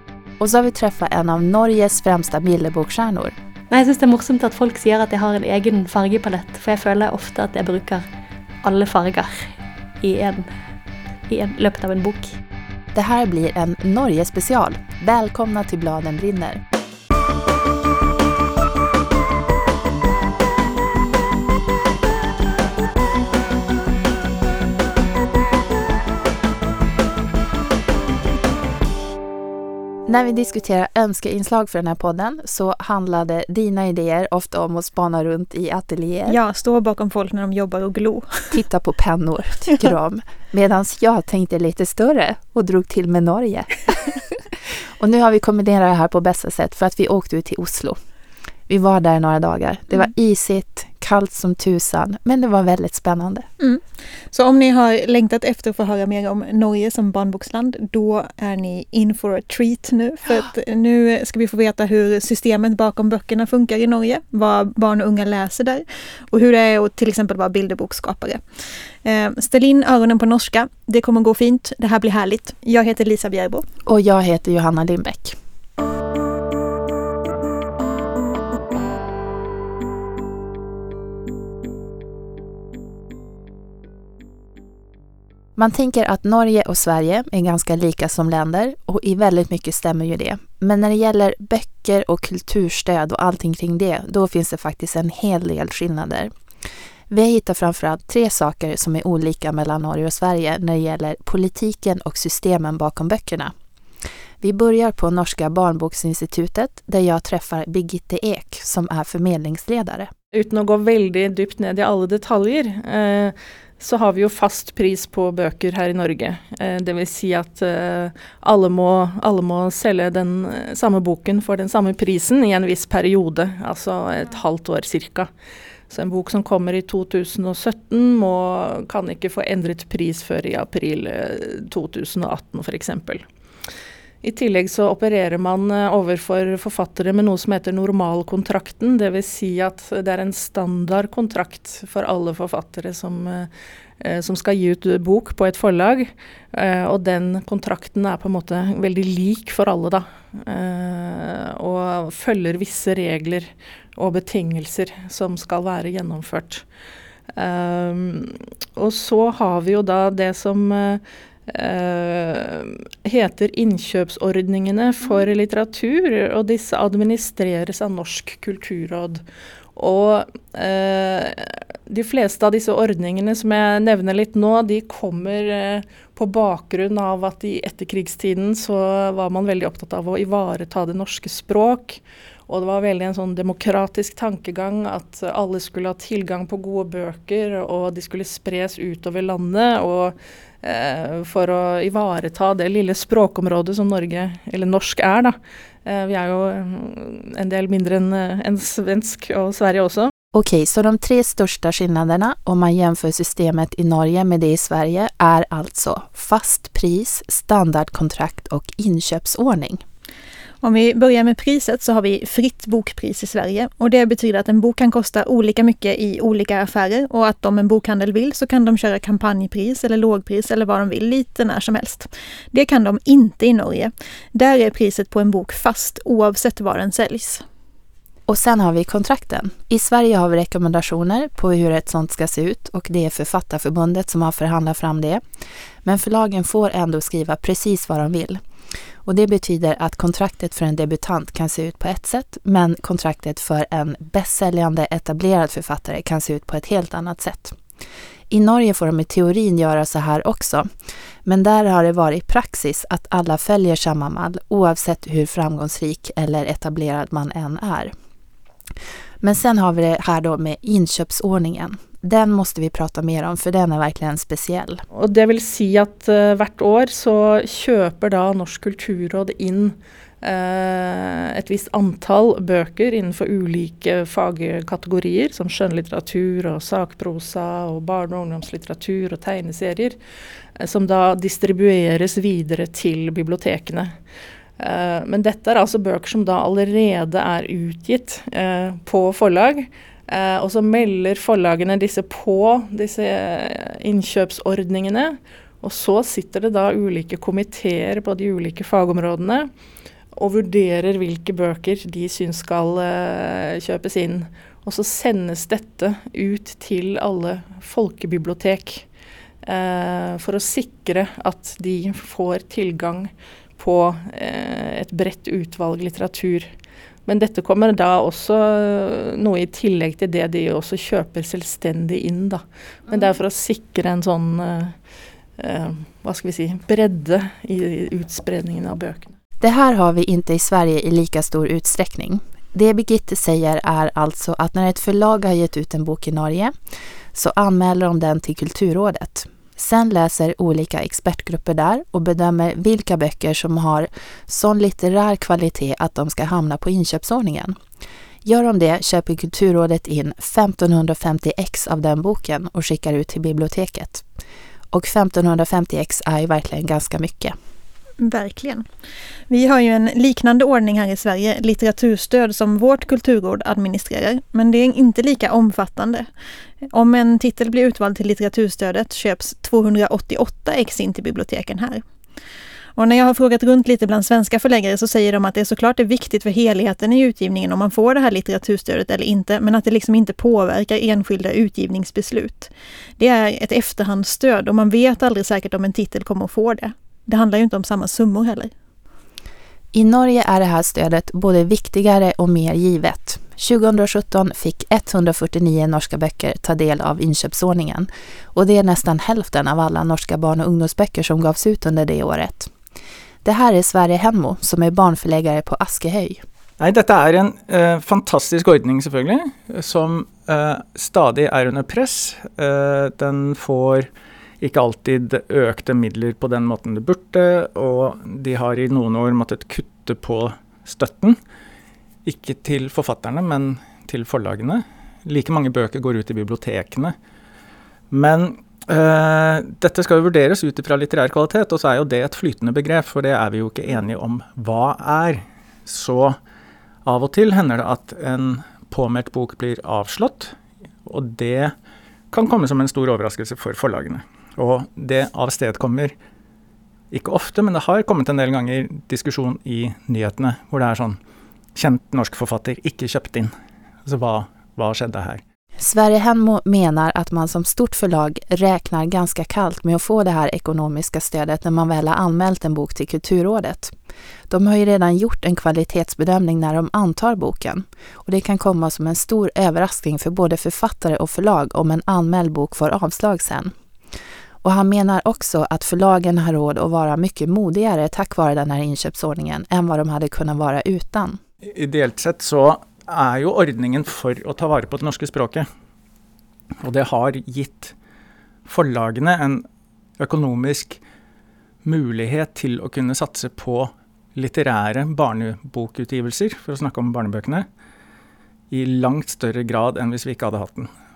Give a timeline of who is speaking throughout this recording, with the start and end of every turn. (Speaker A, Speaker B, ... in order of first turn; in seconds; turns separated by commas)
Speaker A: 0.4-3.4, Speaker B: 3.7-8.1, Speaker B: 8.6-10.5, Speaker B: 11.3-12.4, Speaker A: 12.9-16.6, Speaker A: 30.1-36.4, Speaker C: 36.3-38.6, Speaker A: 38.5-48.0, Speaker A: 48.7-53.5, Speaker C: 53.6-68.4, Speaker C: 69.0-73.6, Speaker A: 73.9-75.4, Speaker A: 85.6-96.3, Speaker A: 97.1-103.5, Speaker A: 104.4-110.1, Speaker D: 110.3-125.3, Speaker D: 125.9-133.2, Speaker D: 134.2-156.6, Speaker D: 157.3-169.2, Speaker D: 169.8-200.1, Speaker A: 200.3-209.8, Speaker C: 210.6-227.4, Speaker A: 228.3-235.2, Speaker A: 235.8-238.4, Speaker A: 239.0-247.6, Speaker A: 248.3-250.7, Speaker A: 251.2-257.9, Speaker A: 259.2-264.8, Speaker D: 264.9-280.0, Speaker D: 280.6-284.0, Speaker D: 284.6-299.5, Speaker D: 300.1-308.9, Speaker D: 309.4-316.5, Speaker D: 317.1-324.8, Speaker D: 325.4-329.1, Speaker A: 329.4-336.5, Speaker A: 337.1-347.6, Speaker A: 348.2-354.0, Speaker A: 354.7-357.4, Speaker C: 358.0-358.6, Speaker C: 359.3-366.1, Speaker C: 366.7-371.8, Speaker C: 372.8-388.5, Speaker A: 389.7-402.5, Speaker A: 403.2-406.2, Speaker E: 406.6-413.9, Speaker E: 414.4-421.2, Speaker E: 422.1-426.9, Speaker E: 427.9-436.2, Speaker E: 436.9-441.6, Speaker E: 442.1-445.9, Speaker E: 446.9-451.0, Speaker E: 451.6-453.3, Speaker E: 453.9-455.2, Speaker A: 455.6-463.7, Speaker A: 464.3-473.5, Speaker A: 474.4-481.2, Speaker E: 481.4-485.5, Speaker E: 486.6-487.7, Speaker E: 488.5-489.4, Speaker E: 490.0-490.8, Speaker E: 491.6-497.5, Speaker E: 498.5-500.7